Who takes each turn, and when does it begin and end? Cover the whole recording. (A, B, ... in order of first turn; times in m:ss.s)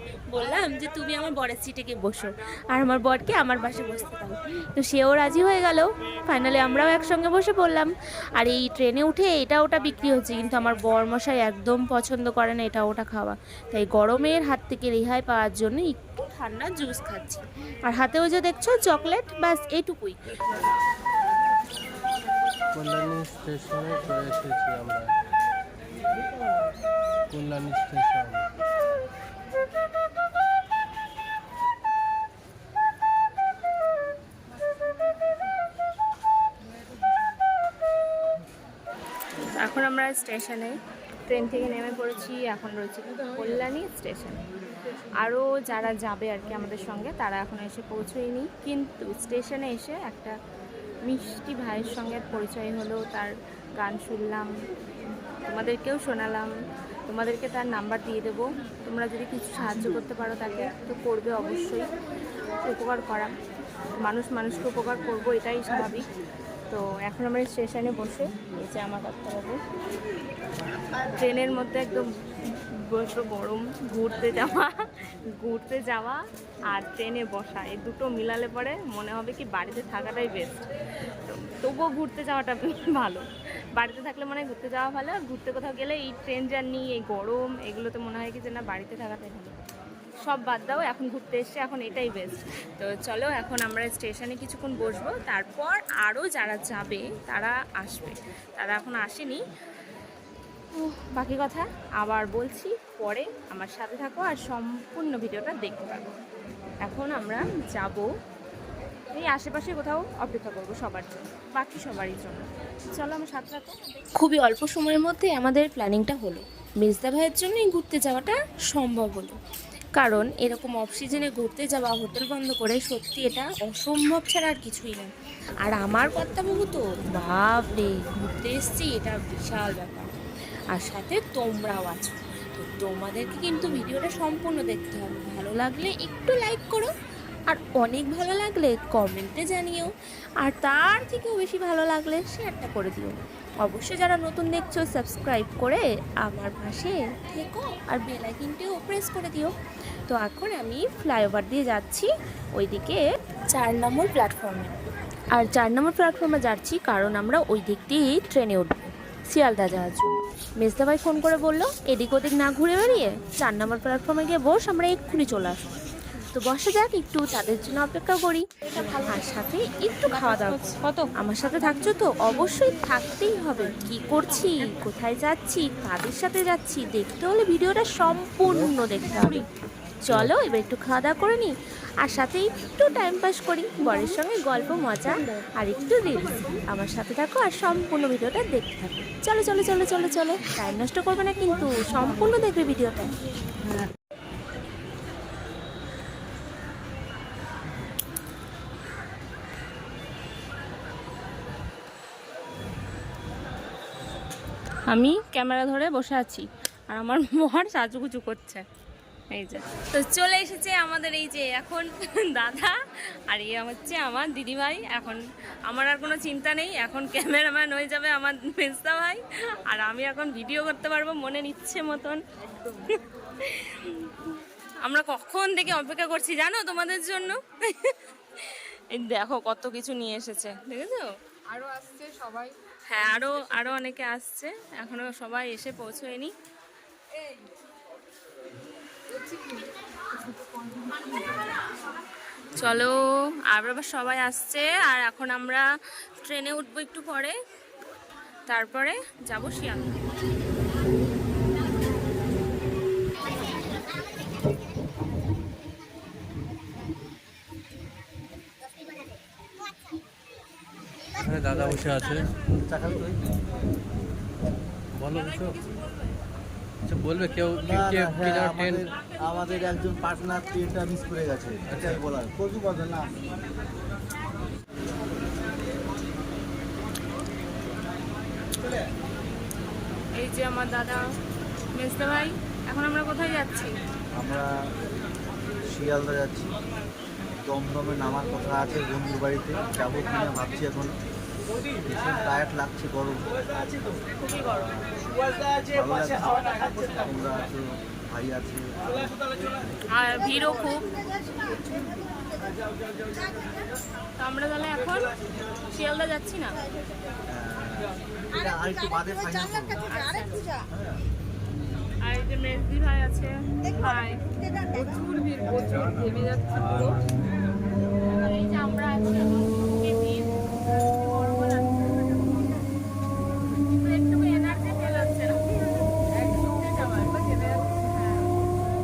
0:00.3-0:20.2 A
0:22.7-0:25.1 B
0:27.3-0:28.5 B
0:39.5-0:40.7 C
0:41.3-0:44.4 C
0:45.2-0:50.4 C
0:51.1-0:54.5 C
0:55.5-0:56.5 C
0:57.1-1:01.9 C
1:02.6-1:03.3 C
1:04.0-1:06.1 C
1:06.7-1:09.6 C
1:11.1-1:12.0 C
1:12.6-1:16.2 C
1:16.7-1:20.7 C
1:21.2-1:23.2 C
1:23.8-1:29.6 C
1:30.2-1:39.4 C
1:40.7-1:46.1 C
1:46.9-1:48.1 C
1:49.1-1:54.0 C
1:54.2-1:59.4 A
2:00.0-2:05.1 A
2:05.6-2:10.1 A
2:10.7-2:16.9 A
2:17.5-2:19.9 A
2:20.4-2:29.5 A
2:30.1-2:34.8 A
2:35.3-2:59.5 A
2:48.8-2:49.0 C
2:50.1-2:51.1 C
3:00.1-3:01.5 A
3:02.0-3:13.1 A
3:24.8-3:28.6 C
3:29.3-3:32.7 C
3:33.3-3:42.2 C
3:42.4-3:43.0 D
3:43.4-3:44.1 C
3:44.8-3:51.1 C
3:51.5-3:52.6 D
3:52.9-3:56.3 C
3:59.1-4:01.7 D
4:02.6-4:05.6 C
4:06.2-4:07.4 C
4:08.5-4:10.0 C
4:21.2-4:22.3 B
4:21.5-4:21.9 E
4:22.7-4:23.2 E
4:25.0-4:25.6 B
4:26.9-4:28.8 B
4:27.6-4:33.1 E
4:31.7-4:32.0 B
4:40.2-4:41.0 C
4:41.7-4:43.8 C
4:44.2-4:44.5 E
4:45.4-4:46.6 E
4:47.4-4:51.0 E
4:51.9-4:53.3 E
4:54.2-4:54.7 C
4:54.5-4:59.7 E
4:59.9-5:00.9 C
5:04.2-5:05.1 C
5:05.7-5:06.6 C
5:07.3-5:09.9 E
5:09.9-5:10.5 C
5:10.7-5:11.0 E
5:12.0-5:14.2 C
5:14.6-5:17.0 D
5:16.6-5:17.0 E
5:18.2-5:20.3 D
5:19.8-5:20.2 C
5:20.9-5:22.6 D
5:23.8-5:25.4 C
5:24.0-5:25.0 D
5:26.1-5:28.2 D